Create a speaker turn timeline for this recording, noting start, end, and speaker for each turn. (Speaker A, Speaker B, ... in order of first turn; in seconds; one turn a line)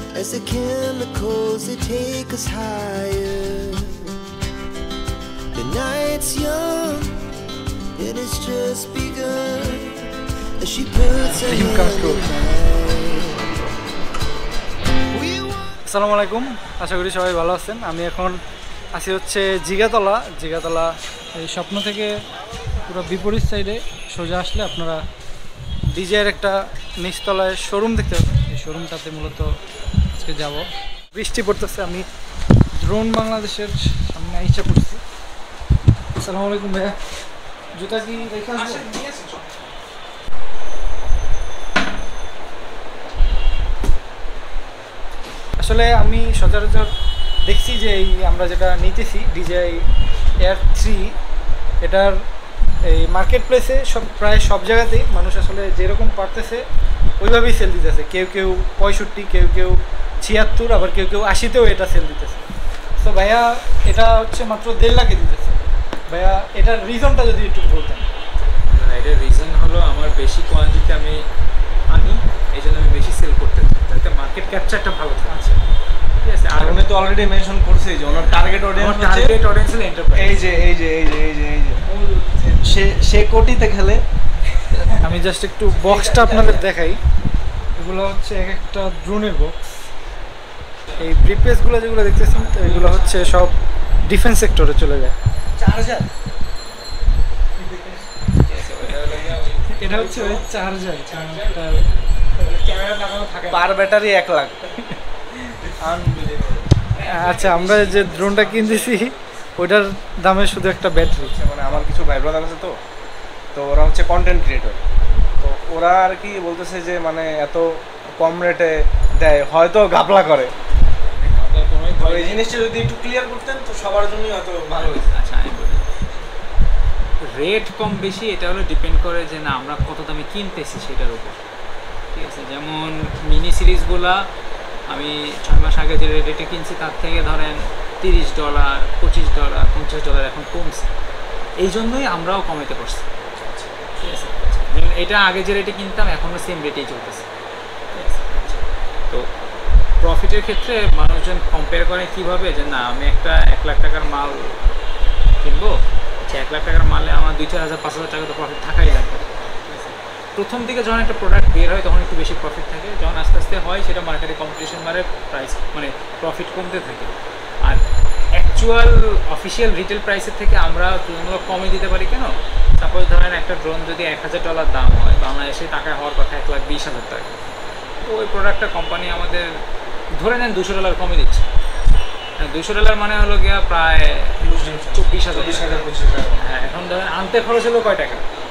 Speaker A: 0.1-4.2
Speaker A: 5.5-7.2
Speaker A: 8.0-13.3
Speaker B: 11.0-11.4
Speaker C: 11.3-12.3
Speaker A: 15.2-15.6
Speaker C: 15.9-18.4
Speaker C: 18.9-22.1
Speaker C: 22.9-25.0
Speaker C: 25.9-29.5
Speaker C: 30.1-32.1
Speaker C: 32.8-35.0
Speaker C: 36.2-37.0
Speaker C: 37.8-38.9
Speaker B: 38.5-39.5
Speaker C: 45.6-46.9
Speaker C: 47.5-49.8
Speaker C: 50.4-51.1
Speaker C: 51.8-52.2
Speaker C: 52.9-56.6
Speaker C: 57.2-62.4
Speaker C: 63.0-68.1
Speaker B: 68.7-71.2
Speaker B: 71.9-75.4
Speaker C: 75.3-75.6
Speaker B: 76.2-76.9
Speaker D: 76.5-79.4
Speaker B: 78.1-80.5
Speaker D: 80.2-81.8
Speaker C: 81.9-82.5
Speaker B: 82.3-82.7
Speaker D: 82.6-84.0
Speaker B: 84.6-85.1
Speaker C: 85.0-87.0
Speaker D: 85.7-86.7
Speaker C: 87.8-89.5
Speaker C: 91.0-95.2
Speaker B: 92.3-93.5
Speaker D: 95.6-96.1
Speaker D: 97.6-98.0
Speaker B: 98.4-100.5
Speaker C: 99.8-101.8
Speaker B: 101.0-103.7
Speaker D: 103.5-104.6
Speaker D: 105.6-106.7
Speaker B: 106.9-109.5
Speaker C: 107.0-111.3
Speaker D: 111.2-112.8
Speaker D: 113.5-114.8
Speaker D: 115.4-120.5
Speaker B: 121.0-122.5
Speaker D: 122.0-125.1
Speaker B: 124.8-125.8
Speaker B: 127.3-131.4
Speaker B: 132.1-134.2
Speaker B: 134.9-140.8
Speaker B: 141.6-143.1
Speaker D: 143.4-143.7
Speaker B: 144.0-147.2
Speaker B: 147.9-148.4
Speaker B: 150.0-154.7
Speaker B: 155.4-155.8
Speaker B: 156.3-167.8
Speaker B: 168.3-177.3
Speaker B: 178.0-179.5
Speaker B: 180.2-181.5
Speaker B: 182.4-184.3
Speaker D: 184.4-186.4
Speaker B: 184.9-188.2